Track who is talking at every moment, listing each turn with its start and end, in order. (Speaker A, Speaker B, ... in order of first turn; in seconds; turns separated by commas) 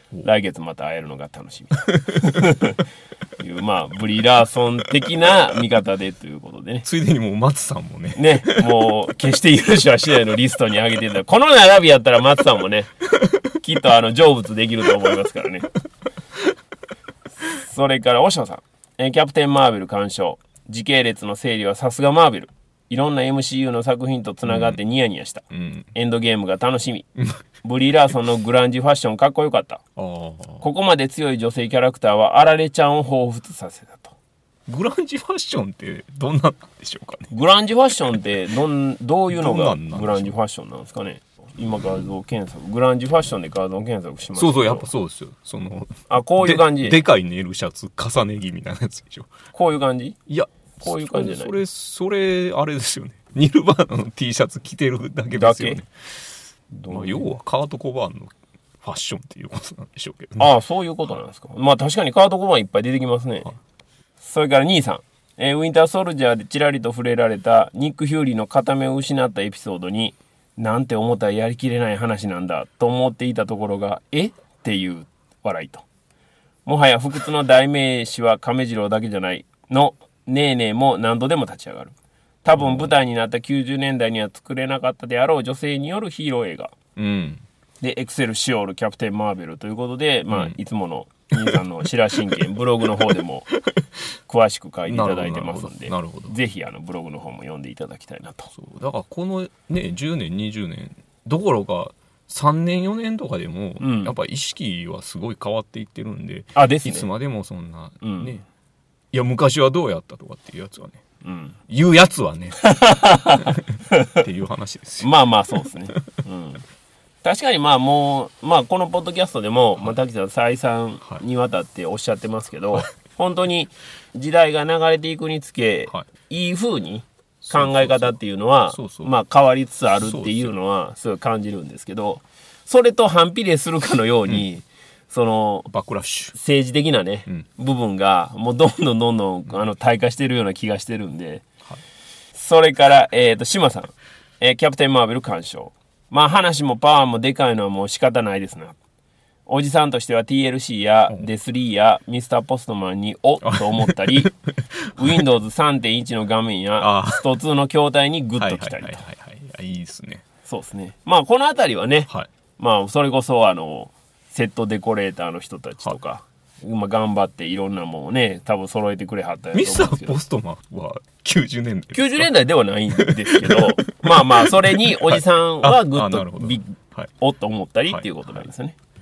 Speaker A: 0.2-2.8, Speaker A: 3.4-6.8, Speaker B: 6.8-8.7, Speaker A: 8.2-12.9, Speaker A: 13.5-15.7, Speaker A: 17.4-27.1, Speaker B: 24.4-24.8, Speaker B: 25.5-25.9, Speaker A: 27.6-29.8, Speaker B: 29.9-30.6, Speaker A: 30.6-34.1, Speaker B: 34.7-37.3, Speaker A: 37.3-44.9, Speaker B: 39.3-40.3, Speaker B: 44.4-49.3, Speaker A: 46.1-47.0, Speaker A: 49.5-50.2, Speaker B: 50.3-55.9, Speaker A: 50.8-51.6, Speaker A: 55.3-55.8, Speaker A: 56.7-57.3, Speaker B: 56.9-60.5, Speaker A: 60.4-63.5, Speaker A: 64.2-75.8, Speaker A: 76.7-86.7, Speaker B: 82.6-82.9, Speaker B: 87.0-87.4, Speaker A: 87.8-93.5, Speaker B: 90.3-90.5, Speaker A: 94.3-98.5, Speaker B: 94.9-96.3, Speaker B: 98.5-108.4, Speaker A: 103.8-104.1, Speaker A: 106.5-107.1, Speaker A: 108.0-108.4, Speaker B: 109.1-111.0, Speaker A: 111.2-111.5, Speaker B: 111.7-112.6, Speaker A: 112.6-114.2, Speaker B: 113.3-115.1, Speaker A: 115.0-116.6, Speaker A: 117.2-135.7, Speaker B: 127.4-128.2, Speaker B: 128.7-129.1, Speaker B: 129.9-130.5, Speaker B: 135.7-136.3, Speaker A: 136.3-141.4, Speaker A: 142.3-148.8, Speaker A: 149.5-154.3, Speaker B: 153.4-155.2, Speaker A: 154.9-159.0, Speaker B: 156.8-157.2, Speaker B: 158.4-160.2, Speaker A: 160.4-170.2, Speaker B: 169.5-172.3, Speaker A: 171.9-178.8, Speaker B: 172.9-177.1